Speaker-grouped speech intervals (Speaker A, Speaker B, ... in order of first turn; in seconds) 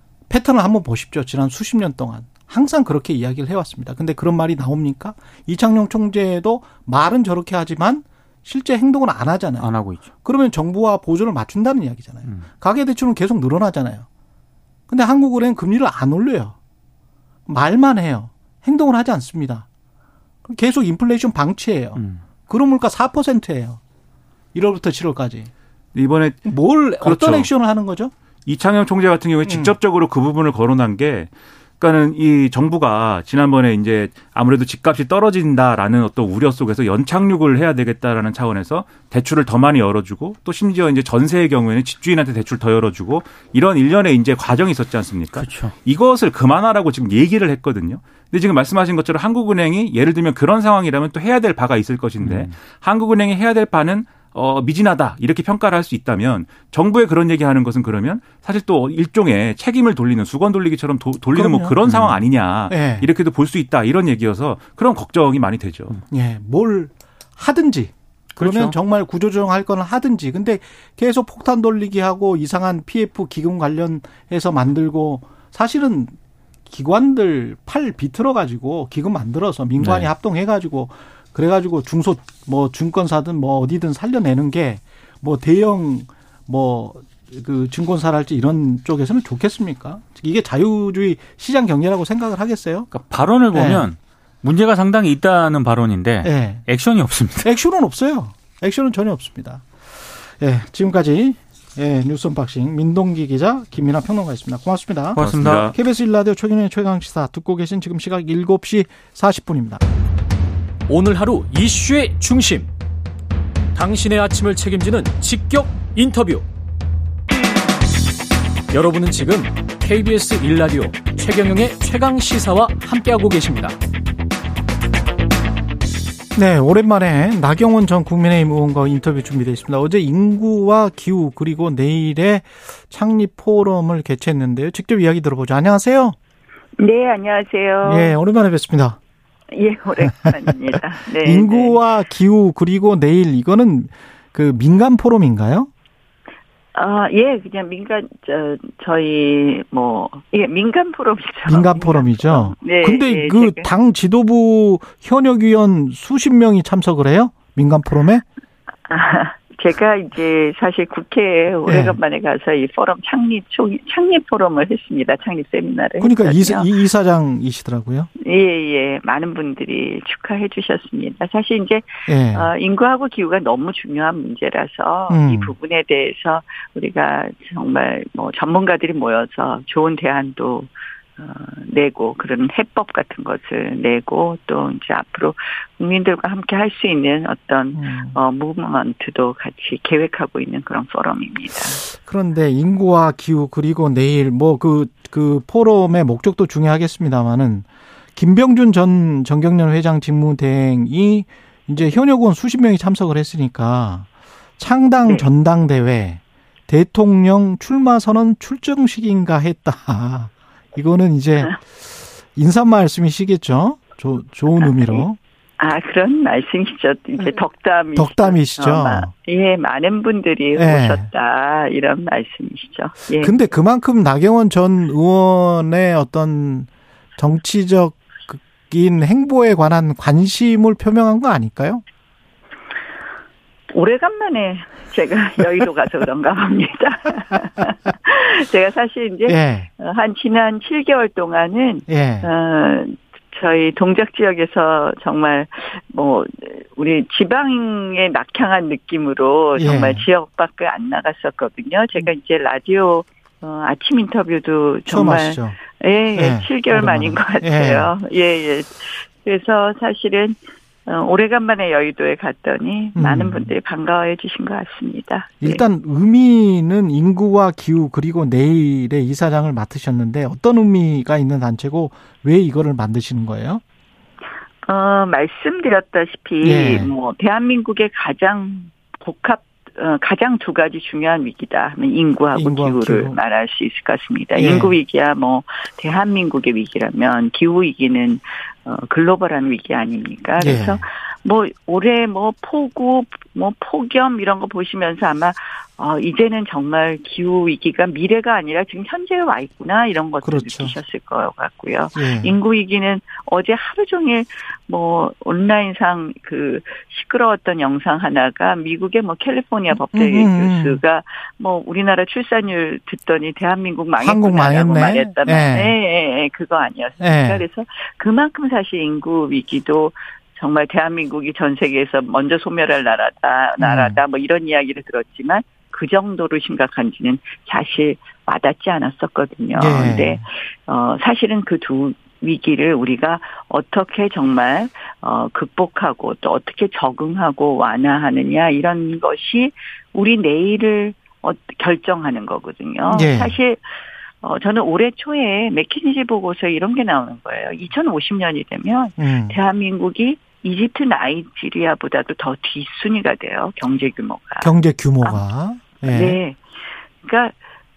Speaker A: 0.3-9.7, 10.2-14.1, 14.9-16.6, 17.5-19.7, 20.5-23.8, 24.5-25.5, 26.5-28.1, 29.4-29.8, 61.3-61.8, 62.7-63.1, 66.1-76.1, 76.7-92.9, 93.5-93.9, 96.2-96.7, 97.4-109.8, 126.3-136.2, 137.8-139.0, 141.2-145.7, 151.5-158.2, 161.7-162.0, 166.0-168.1, 172.1-172.5, 175.1-175.6, 187.7-188.2, 191.9-204.1, 204.6-215.2, 218.0-219.1, 220.6-221.1, 223.2-231.8, 239.3-239.7, 241.9-242.3, 249.6-250.1, 254.9-255.6, 256.2-257.9, 263.0-263.5, 265.4-273.6, 276.4-276.9, 282.4-283.2, 284.4-284.8, 290.4-290.8, 300.2-300.7, 302.0-302.4, 309.9-310.8, 314.0-315.8, 317.0-317.4, 323.6-324.0, 329.6-330.2, 342.9-343.4, 349.0-349.4, 354.4-356.2
Speaker B: 9.6-10.1, 22.0-22.2, 45.3-45.7, 52.2-52.5, 61.9-62.2, 68.4-68.7, 79.8-80.1, 92.9-97.5, 105.1-105.7
Speaker C: 25.9-27.5, 28.5-66.0, 105.2-105.8
Speaker D: 110.9-112.7, 113.8-116.5, 118.7-123.8
Speaker E: 136.8-138.2, 139.5-141.8, 146.8-153.7, 158.9-166.7, 168.2-191.8, 214.6-215.1, 215.6-223.3, 233.7-265.6, 274.7-343.6, 344.2-355.2, 355.8-356.4, 357.0-357.3